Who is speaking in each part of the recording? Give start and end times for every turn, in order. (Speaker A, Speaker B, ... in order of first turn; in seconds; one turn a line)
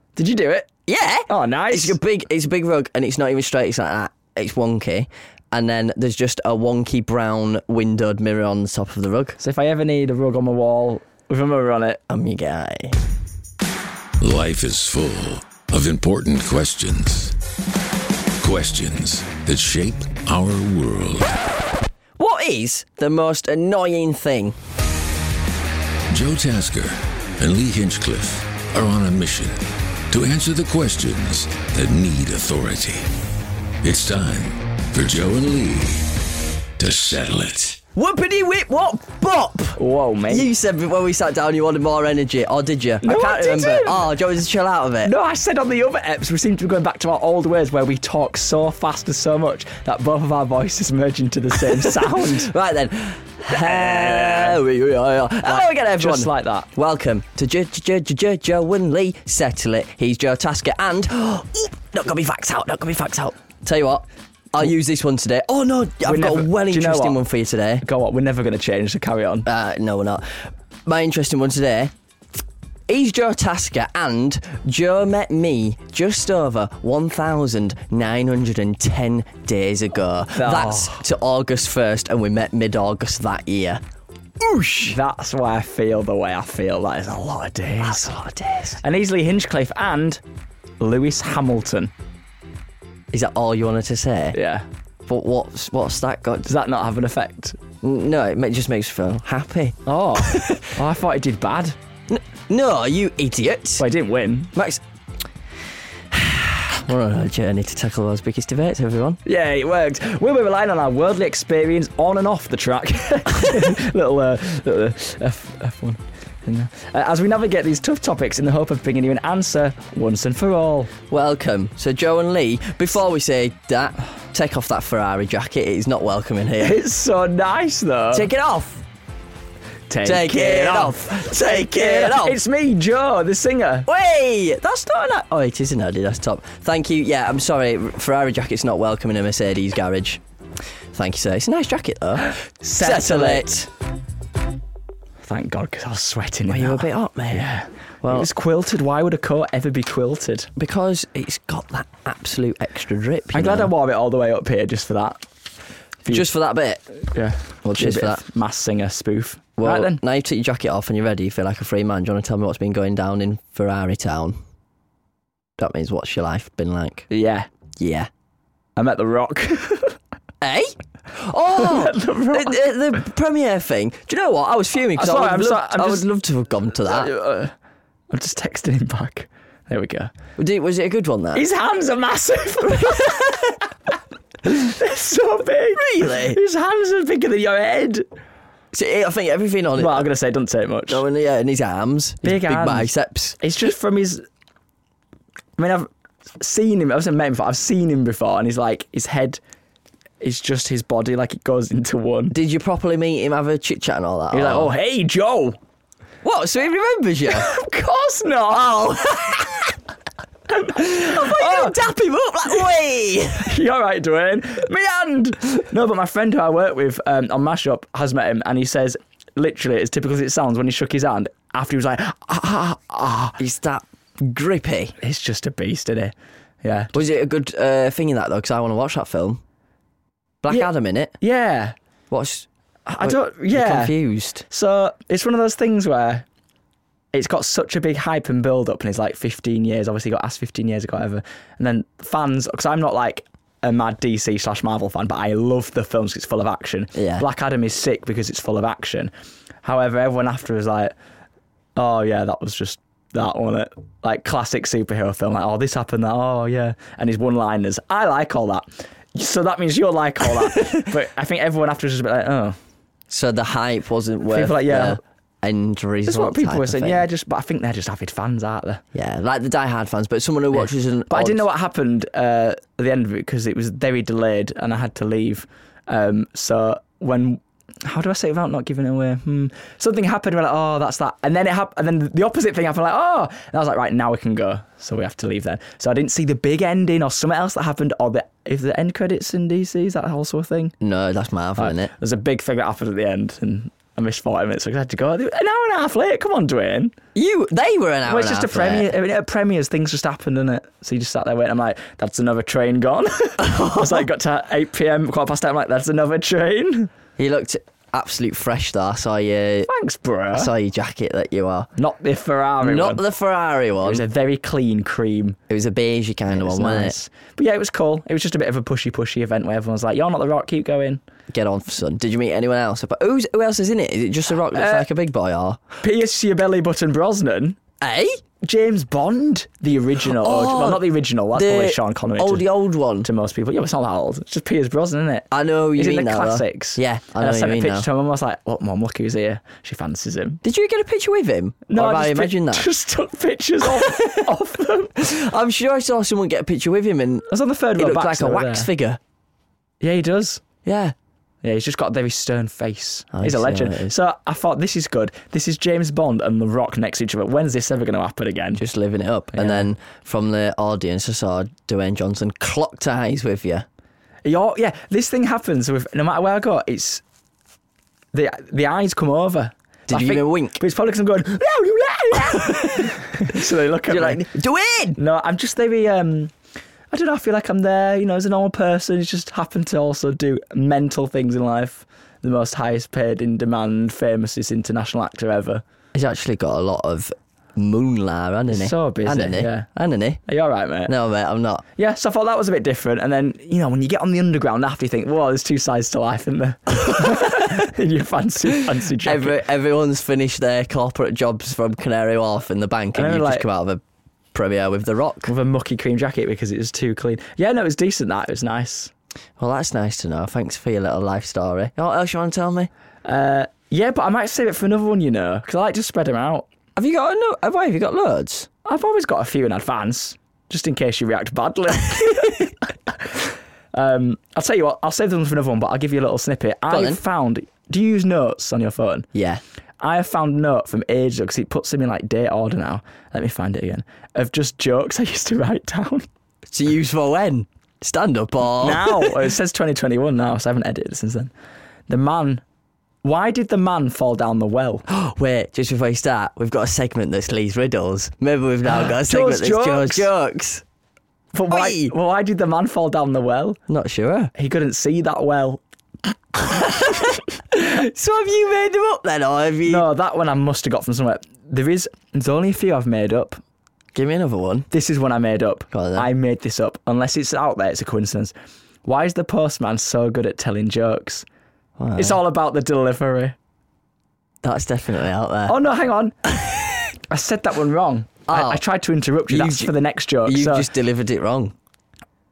Speaker A: 0.1-0.7
Speaker B: 0.8-9.4
Speaker A: 1.3-2.0
Speaker A: 9.4-12.0
Speaker B: 12.1-13.0
Speaker C: 14.2-17.4
Speaker C: 18.4-21.4
Speaker B: 22.2-24.6
Speaker C: 26.1-33.1
Speaker C: 33.8-36.1
Speaker C: 36.8-37.9
Speaker B: 37.9-45.1
Speaker A: 39.8-40.5
Speaker A: 43.0-44.0
Speaker A: 45.0-52.5
Speaker B: 51.6-67.8
Speaker A: 53.5-54.6
Speaker A: 55.4-56.7
Speaker A: 66.0-67.2
Speaker A: 67.8-69.5
Speaker B: 69.4-71.9
Speaker B: 72.9-83.8
Speaker A: 80.3-81.0
Speaker B: 84.4-84.9
Speaker A: 84.8-88.1
Speaker B: 87.8-88.8
Speaker A: 88.8-90.2
Speaker A: 90.8-91.9
Speaker B: 93.1-94.4
Speaker A: 94.3-94.6
Speaker B: 95.1-96.5
Speaker A: 96.5-97.6
Speaker B: 97.8-100.7
Speaker A: 99.8-101.8
Speaker B: 102.1-103.8
Speaker A: 103.8-104.5
Speaker B: 104.5-104.8
Speaker B: 106.1-109.2
Speaker A: 109.2-120.9
Speaker B: 121.1-126.8
Speaker A: 126.6-128.3
Speaker B: 128.1-128.8
Speaker A: 129.9-133.9
Speaker B: 130.0-132.4
Speaker B: 133.8-140.2
Speaker B: 140.9-143.7
Speaker A: 142.6-143.5
Speaker A: 145.2-150.5
Speaker B: 146.5-147.5
Speaker B: 148.0-148.3
Speaker B: 150.6-153.7
Speaker A: 153.3-155.2
Speaker A: 156.0-156.3
Speaker B: 156.1-156.8
Speaker A: 157.1-160.0
Speaker B: 157.6-158.2
Speaker B: 159.6-164.4
Speaker B: 165.6-167.1
Speaker A: 167.1-167.5
Speaker B: 167.8-168.1
Speaker A: 168.8-169.9
Speaker B: 170.4-177.1
Speaker A: 171.6-172.6
Speaker A: 175.0-176.1
Speaker A: 176.8-177.5
Speaker A: 178.1-180.1
Speaker B: 180.4-181.4
Speaker A: 181.3-183.7
Speaker A: 184.4-188.1
Speaker B: 185.8-186.4
Speaker B: 188.7-190.1
Speaker A: 189.8-191.0
Speaker B: 190.9-193.4
Speaker A: 192.2-194.2
Speaker A: 195.6-195.9
Speaker A: 196.4-199.4
Speaker A: 200.2-202.3
Speaker B: 202.3-204.7
Speaker A: 204.3-205.6
Speaker B: 206.2-207.5
Speaker A: 207.3-209.6
Speaker A: 210.6-211.8
Speaker B: 210.7-213.5
Speaker A: 213.4-223.4
Speaker B: 223.4-224.9
Speaker A: 225.0-226.9
Speaker B: 226.9-229.4
Speaker B: 230.4-231.2
Speaker A: 230.5-231.7
Speaker B: 232.1-232.5
Speaker A: 232.9-234.0
Speaker B: 233.0-234.4
Speaker A: 234.5-236.2
Speaker A: 237.1-249.1
Speaker B: 246.9-247.2
Speaker A: 249.6-250.9
Speaker A: 251.8-262.6
Speaker B: 263.1-267.0
Speaker A: 264.2-265.0
Speaker A: 266.1-268.8
Speaker B: 268.9-271.4
Speaker A: 270.5-290.7
Speaker B: 290.8-291.9
Speaker A: 291.6-296.9
Speaker B: 297.1-298.9
Speaker A: 298.1-306.9
Speaker B: 303.4-304.1
Speaker B: 307.2-309.7
Speaker A: 309.7-310.5
Speaker B: 310.3-311.7
Speaker A: 311.8-313.0
Speaker B: 312.6-314.1
Speaker A: 313.8-315.4
Speaker B: 315.5-317.0
Speaker A: 316.3-321.0
Speaker B: 321.3-325.6
Speaker A: 324.5-324.9
Speaker A: 325.8-327.6
Speaker B: 327.8-328.2
Speaker A: 328.4-332.4
Speaker B: 330.1-333.1
Speaker A: 333.0-340.4
Speaker B: 335.3-337.9
Speaker B: 340.4-342.7
Speaker A: 341.7-344.9
Speaker B: 343.6-344.3
Speaker B: 345.0-349.0
Speaker A: 347.3-348.7
Speaker A: 349.8-350.4
Speaker B: 350.6-350.9
Speaker A: 351.4-358.6
Speaker B: 353.1-353.9
Speaker B: 358.6-363.6
Speaker A: 359.3-359.7
Speaker A: 364.2-367.0
Speaker A: 368.1-374.2
Speaker B: 369.9-370.6
Speaker B: 372.1-372.9
Speaker B: 373.9-375.0
Speaker A: 374.9-376.3
Speaker A: 376.9-385.6
Speaker B: 385.9-390.2
Speaker A: 388.5-389.7
Speaker A: 390.2-390.9
Speaker B: 390.9-391.6
Speaker A: 391.8-399.4
Speaker B: 396.9-397.4
Speaker B: 398.7-403.8
Speaker A: 402.9-403.4
Speaker B: 404.3-405.3
Speaker A: 405.2-408.9
Speaker B: 409.4-412.7
Speaker A: 413.0-416.5
Speaker B: 416.8-418.5
Speaker A: 418.6-423.2
Speaker A: 423.7-429.1
Speaker B: 426.7-427.0
Speaker B: 429.1-429.4
Speaker A: 429.8-436.1
Speaker B: 436.5-439.2
Speaker A: 438.6-441.3
Speaker A: 441.9-442.4
Speaker A: 443.0-444.8
Speaker B: 444.9-450.6
Speaker A: 448.7-450.1
Speaker A: 451.3-453.6
Speaker B: 451.5-451.9
Speaker B: 453.7-454.3
Speaker A: 454.3-455.6
Speaker B: 456.4-459.9
Speaker A: 459.6-463.4
Speaker B: 463.9-464.7
Speaker A: 464.7-468.3
Speaker B: 465.7-466.1
Speaker A: 468.8-471.2
Speaker B: 471.8-472.2
Speaker A: 472.0-473.4
Speaker B: 474.4-475.6
Speaker A: 475.5-476.2
Speaker A: 477.1-480.7
Speaker B: 478.3-478.6
Speaker B: 479.3-481.5